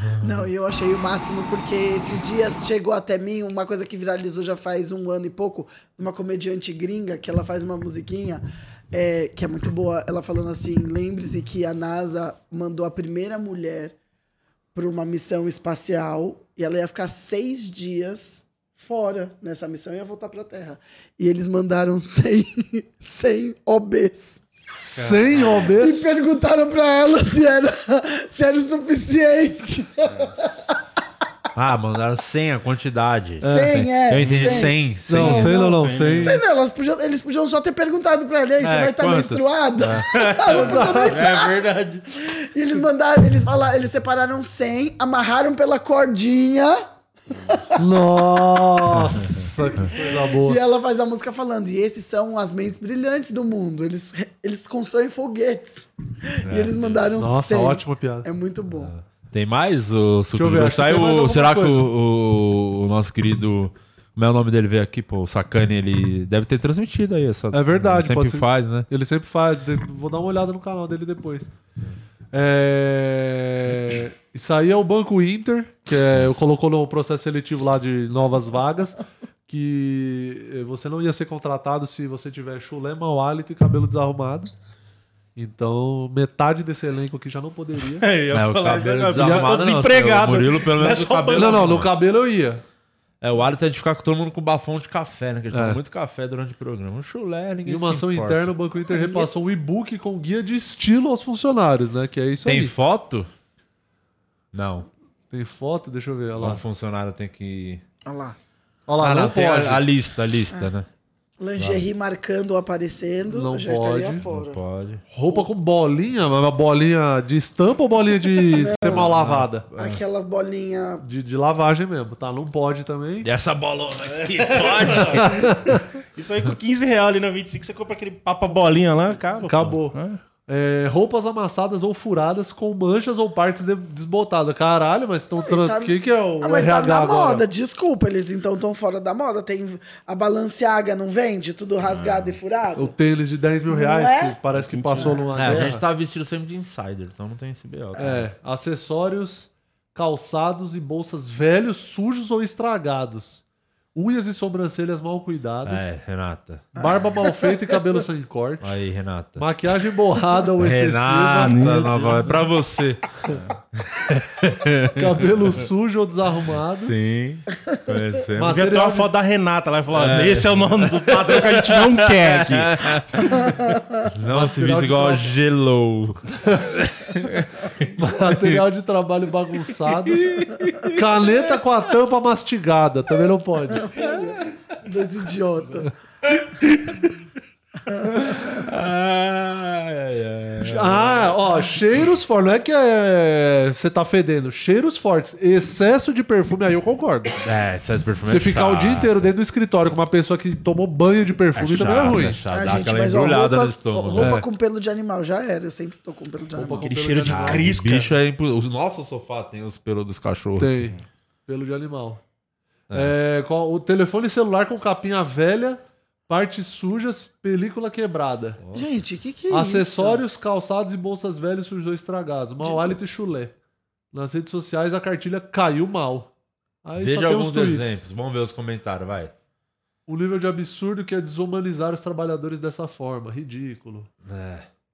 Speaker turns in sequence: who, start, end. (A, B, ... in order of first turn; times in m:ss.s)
0:00.2-0:13.9 A
0:14.7-0:24.4 A
0:25.0-0:26.1 B
0:25.8-0:30.3 A
0:31.5-0:35.6 C
0:33.4-0:36.4 B
0:33.4-0:41.6 A
0:35.6-0:36.4 D
0:38.6-0:40.1 C
0:40.1-0:42.0 D
0:40.5-0:41.2 B
0:42.2-0:47.8 A
0:47.8-0:50.6 B
0:50.3-0:58.9 A
0:56.4-0:57.0 C
0:57.2-0:58.3 B
0:58.8-1:08.9 C
1:00.3-1:01.8 B
1:07.5-1:11.5 B
1:12.3-1:19.0 B
1:19.5-1:24.5 B
1:25.4-1:28.0 B
1:28.0-1:31.8 D
1:28.3-1:31.9 C
1:29.2-1:29.7 B
1:31.3-1:32.6 B
1:33.2-1:38.5 C
1:35.5-1:35.8 B
1:37.6-1:42.7 B
1:38.9-1:39.3 A
1:42.4-1:43.3 C
1:44.5-1:44.9 C
1:45.3-1:46.6 B
1:46.4-1:47.8 C
1:48.0-1:48.4 A
1:48.9-1:49.8 B
1:49.0-1:50.9 C
1:51.4-1:54.6 A
1:51.6-1:51.9 C
1:53.3-1:54.2 B
1:54.3-1:55.0 C
1:55.1-1:59.6 B
1:58.4-1:59.1 A
1:59.0-2:00.0 C
1:59.8-2:01.0 A
2:01.0-2:03.3 B
2:03.2-2:05.4 C
2:04.3-2:05.5 D
2:05.2-2:05.5 B
2:06.2-2:10.2 D
2:09.4-2:17.4 B
2:15.4-2:22.9 A
2:22.8-2:25.8 B
2:23.7-2:24.4 A
2:24.5-2:25.3 D
2:24.9-2:25.6 A
2:25.4-2:28.2 C
2:28.0-2:33.4 B
2:33.9-2:35.9 B
2:35.6-2:36.6 C
2:36.7-2:38.7 B
2:36.8-2:37.5 A
2:38.6-2:39.4 C
2:39.4-2:41.8 B
2:40.6-2:43.2 C
2:41.4-2:42.3 D
2:43.8-2:45.4 C
2:45.0-2:46.9 B
2:46.7-2:48.6 C
2:48.4-2:49.1 B
2:48.4-2:53.0 D
2:49.9-2:53.4 C
2:54.1-2:58.6 C
2:54.3-2:55.3 B
2:58.0-3:00.3 B
3:00.1-3:01.0 C
3:00.9-3:04.0 B
3:03.8-3:05.9 A
3:07.9-3:08.5 A
3:08.2-3:11.4 C
3:10.6-3:17.3 B
3:17.4-3:19.3 C
3:18.2-3:22.4 B
3:21.6-3:24.3 C
3:22.5-3:26.9 A
3:24.2-3:24.5 B
3:26.5-3:28.1 B
3:26.8-3:28.1 D
3:27.3-3:30.7 C
3:30.6-3:31.0 B
3:31.5-3:32.2 B
3:32.9-3:38.6 B
3:38.6-3:38.9 C
3:38.7-3:40.2 A
3:39.5-3:43.5 B
3:42.6-3:43.0 A
3:44.1-3:46.3 B
3:46.8-3:48.0 B
3:47.0-3:49.3 C
3:50.1-3:54.1 B
3:54.2-3:54.7 C